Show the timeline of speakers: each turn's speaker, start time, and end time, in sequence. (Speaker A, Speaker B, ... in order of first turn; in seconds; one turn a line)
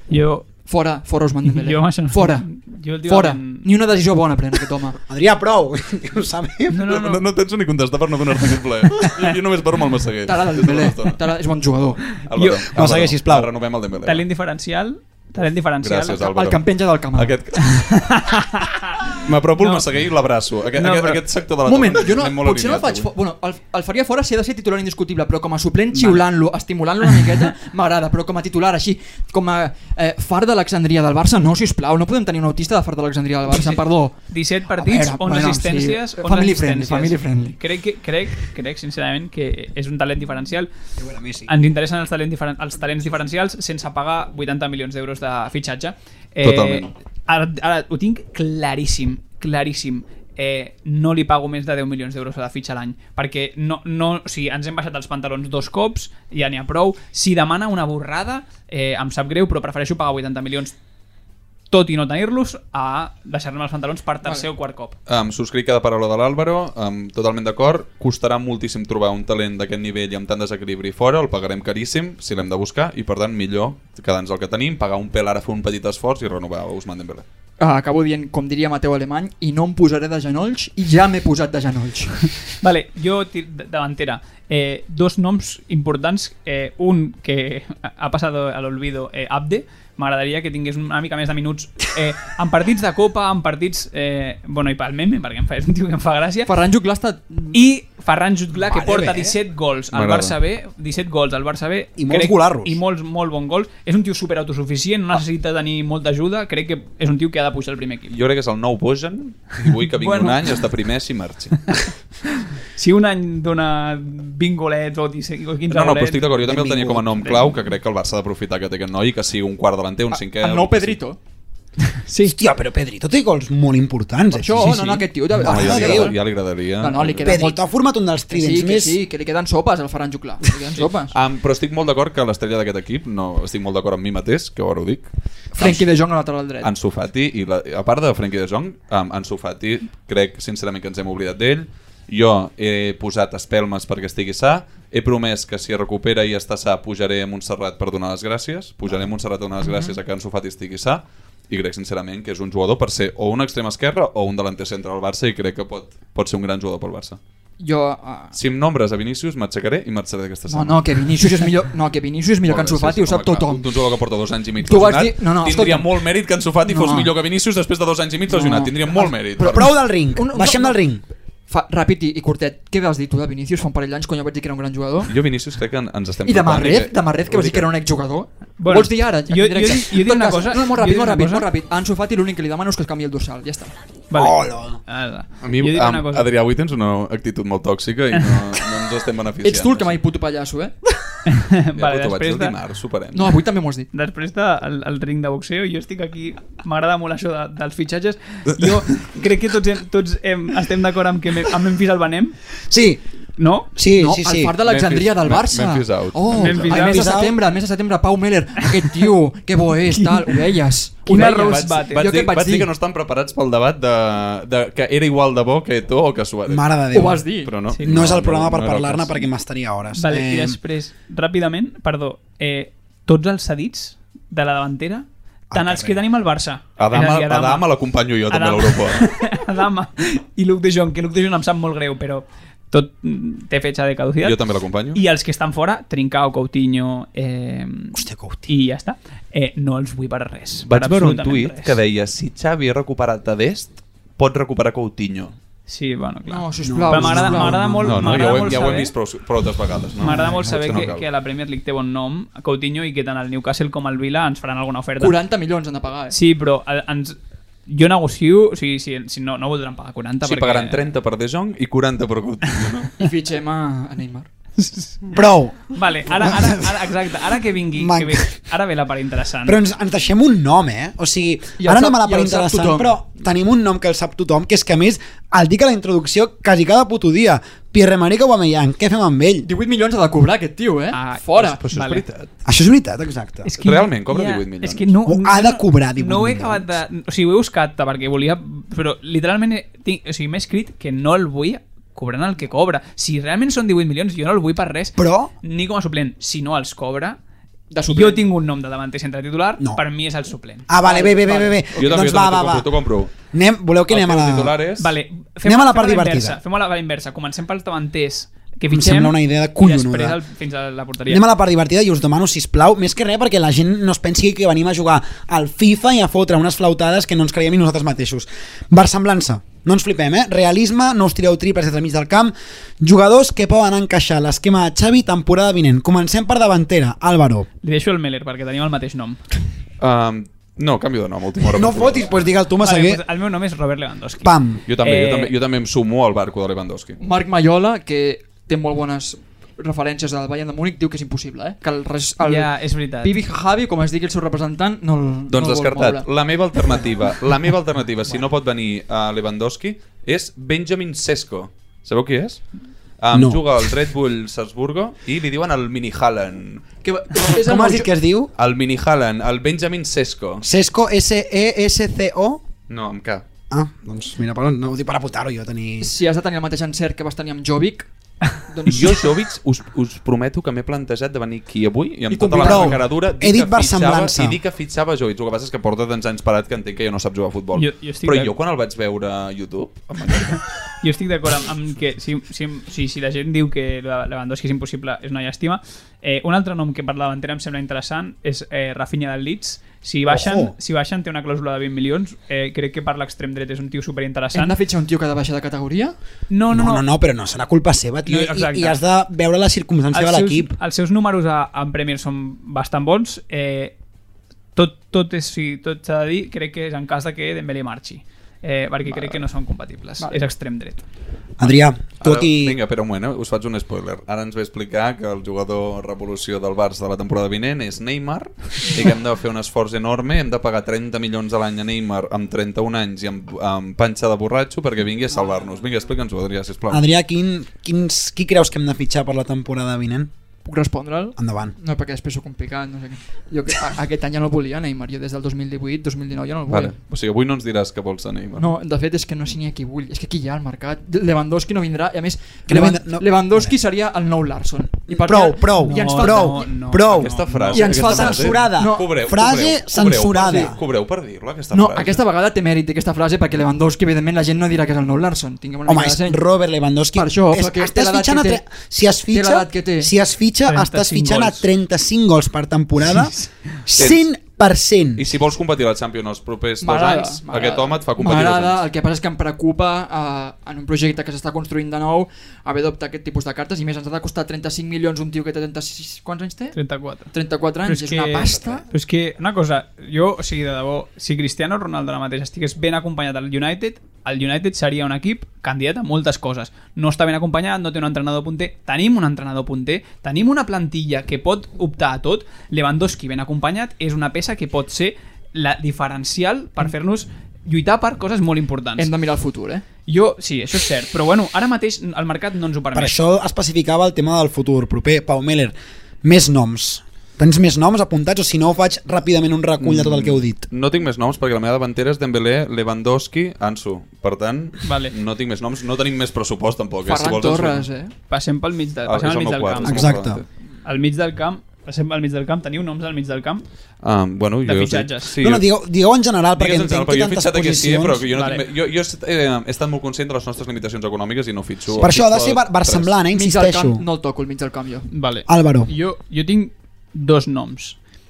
Speaker A: 0.1-0.5
Speaker B: 0.6-2.5
Speaker A: 1.5-3.6
Speaker B: 3.1-5.0
Speaker C: 5.1-6.9
Speaker A: 6.7-7.2
Speaker D: 6.8-11.2
Speaker B: 10.3-12.0
Speaker D: 12.2-14.3
Speaker A: 12.4-12.6
Speaker C: 12.7-13.5
Speaker A: 14.0-16.2
Speaker D: 15.8-16.6
Speaker B: 16.2-17.3
Speaker D: 17.1-17.8
Speaker A: 17.7-18.9
Speaker D: 19.2-23.1
Speaker A: 19.6-19.8
Speaker A: 20.8-21.2
Speaker B: 21.6-34.2
Speaker A: 33.5-40.7
Speaker B: 34.8-37.6
Speaker C: 41.0-41.5
Speaker A: 41.5-60.7
Speaker D: 46.4-46.9
Speaker A: 61.7-64.9
Speaker D: 65.1-77.2
Speaker B: 77.6-82.2
Speaker A: 82.6-96.5
Speaker B: 96.5-97.6
Speaker A: 97.5-108.1
Speaker C: 98.6-99.4
Speaker D: 99.9-100.4
Speaker C: 102.0-102.8
Speaker D: 108.1-111.7
Speaker A: 110.0-110.4
Speaker A: 112.8-116.6
Speaker D: 115.7-121.0
Speaker C: 116.5-117.0
Speaker A: 117.2-117.6
Speaker B: 120.1-121.2
Speaker A: 122.0-122.3
Speaker C: 122.2-126.1
Speaker B: 124.3-126.2
Speaker D: 125.4-127.3
Speaker B: 126.8-127.6
Speaker C: 127.2-129.0
Speaker B: 128.3-131.1
Speaker D: 131.1-135.9
Speaker B: 135.6-136.7
Speaker D: 136.6-157.2
Speaker B: 157.6-158.3
Speaker D: 158.3-160.8
Speaker B: 160.5-163.7
Speaker D: 162.4-169.6
Speaker B: 164.6-165.9
Speaker B: 166.7-167.1
Speaker B: 168.3-170.8
Speaker C: 169.4-171.0
Speaker B: 171.5-175.1
Speaker D: 175.1-177.7
Speaker B: 176.3-183.7
Speaker A: 178.6-181.5
Speaker A: 184.1-186.3
Speaker C: 184.1-184.8
Speaker D: 185.4-190.0
Speaker A: 188.2-188.4
Speaker B: 189.4-190.8
Speaker A: 191.3-192.6
Speaker D: 191.8-193.4
Speaker B: 193.1-193.9
Speaker A: 193.9-202.4
Speaker C: 202.7-203.0
Speaker A: 203.4-203.7
Speaker C: 203.8-204.5
Speaker B: 204.0-212.7
Speaker D: 204.6-206.7
Speaker A: 206.4-207.2
Speaker C: 206.7-207.3
Speaker A: 211.1-212.1
Speaker D: 211.2-216.6
Speaker C: 216.5-217.3
Speaker B: 216.9-217.5
Speaker D: 217.4-219.2
Speaker C: 217.8-220.6
Speaker A: 219.9-227.6
Speaker C: 225.5-226.0
Speaker D: 226.8-229.1
Speaker A: 228.3-234.4
Speaker D: 234.2-235.0
Speaker A: 234.9-241.7
Speaker C: 237.9-238.5
Speaker D: 240.6-245.3
Speaker A: 245.7-248.9
Speaker B: 246.3-247.6
Speaker C: 246.6-248.5
Speaker D: 247.8-251.1
Speaker A: 250.0-255.2
Speaker C: 250.1-250.8
Speaker B: 255.0-256.2
Speaker A: 256.1-260.8
Speaker D: 260.2-262.9
Speaker B: 263.0-264.3
Speaker A: 264.6-265.2
Speaker C: 265.1-266.9
Speaker A: 265.7-269.6
Speaker C: 267.7-268.3
Speaker C: 269.4-279.5
Speaker B: 271.6-272.9
Speaker B: 279.4-281.6
Speaker A: 280.9-282.0
Speaker D: 281.4-282.3
Speaker C: 282.4-283.5
Speaker A: 283.4-297.2
Speaker D: 283.6-284.9
Speaker C: 285.1-286.8
Speaker C: 295.0-295.3
Speaker B: 297.7-298.2
Speaker A: 297.9-300.7
Speaker C: 299.6-299.8
Speaker C: 300.7-302.7
Speaker B: 300.8-301.6
Speaker D: 301.8-303.1
Speaker C: 303.3-304.6
Speaker D: 303.9-304.9
Speaker A: 304.8-311.2
Speaker C: 305.4-306.4
Speaker C: 308.7-310.2
Speaker C: 311.1-327.5
Speaker A: 327.6-329.2
Speaker D: 329.8-332.2
Speaker C: 331.5-333.0
Speaker A: 332.6-335.3
Speaker C: 334.2-334.6
Speaker D: 334.7-337.0
Speaker B: 337.0-346.1
Speaker A: 342.2-343.2
Speaker D: 345.3-352.4
Speaker D: 353.0-356.7
Speaker C: 353.1-353.4
Speaker B: 356.8-357.9
Speaker C: 357.3-358.3
Speaker D: 358.4-360.4
Speaker C: 360.4-362.4
Speaker D: 362.7-363.2
Speaker C: 363.5-365.9
Speaker B: 365.8-367.9
Speaker B: 368.4-369.0
Speaker D: 368.7-380.4
Speaker B: 372.1-372.8
Speaker C: 372.4-374.4
Speaker A: 377.6-378.3
Speaker A: 380.8-394.6
Speaker C: 390.1-390.5
Speaker B: 394.3-395.9
Speaker A: 396.3-396.8
Speaker C: 396.5-400.6
Speaker A: 398.1-398.8
Speaker A: 399.9-403.7
Speaker A: 404.6-410.8
Speaker B: 408.9-409.2
Speaker B: 410.0-410.2
Speaker C: 411.4-412.6
Speaker D: 412.0-426.8
Speaker C: 426.7-430.1
Speaker B: 430.4-436.7
Speaker C: 431.2-431.6
Speaker D: 436.5-438.5
Speaker B: 438.4-446.5
Speaker C: 442.5-443.5
Speaker C: 444.9-450.6
Speaker A: 445.6-447.8
Speaker D: 446.9-452.0
Speaker B: 447.5-448.8
Speaker B: 451.5-456.2
Speaker C: 455.7-463.1
Speaker B: 456.9-458.4
Speaker B: 459.1-459.9
Speaker A: 460.4-461.4
Speaker A: 462.9-463.2
Speaker C: 463.6-465.1
Speaker D: 463.8-464.1
Speaker D: 465.0-468.6
Speaker B: 466.6-476.6
Speaker A: 476.5-477.1
Speaker B: 477.1-478.6
Speaker A: 477.6-498.9
Speaker B: 498.8-499.6
Speaker A: 499.9-502.9
Speaker C: 502.7-510.4
Speaker D: 509.6-517.7
Speaker A: 514.6-514.9
Speaker B: 516.9-517.9
Speaker A: 518.1-520.0
Speaker D: 518.8-520.2
Speaker C: 519.6-520.2
Speaker A: 520.6-523.5
Speaker D: 523.8-525.5
Speaker A: 524.5-525.1
Speaker C: 525.2-528.0
Speaker D: 526.4-533.0
Speaker A: 528.1-528.4
Speaker C: 531.7-533.8
Speaker B: 533.1-534.9
Speaker A: 534.9-537.8
Speaker C: 535.3-535.7